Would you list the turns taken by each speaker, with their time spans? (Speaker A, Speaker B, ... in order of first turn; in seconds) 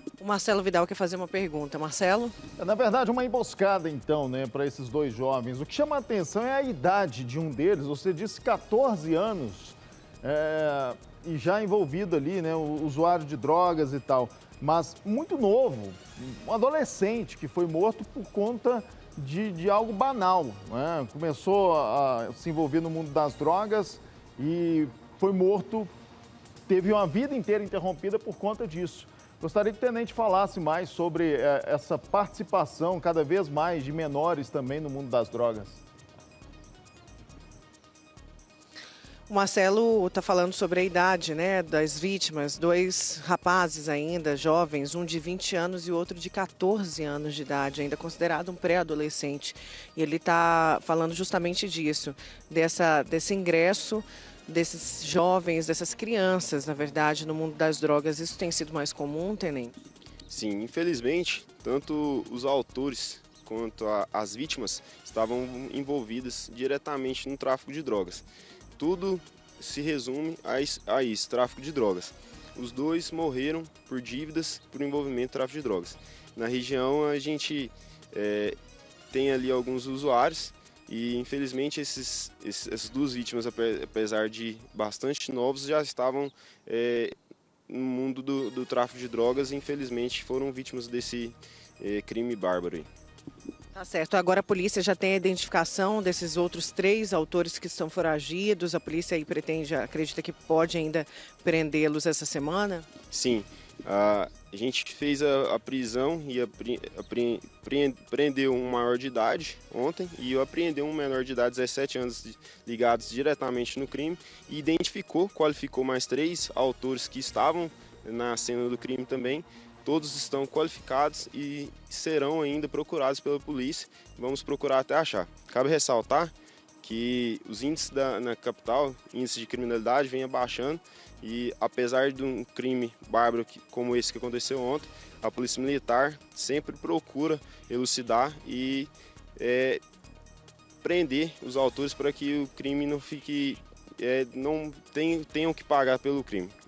Speaker A: 0.2-2.3, 39.3-59.8, 93.7-102.9
Speaker B: 2.6-25.9, 26.7-35.8
Speaker C: 60.3-68.2, 68.8-78.5, 79.1-87.1, 87.7-92.9, 103.1-139.8, 140.8-146.5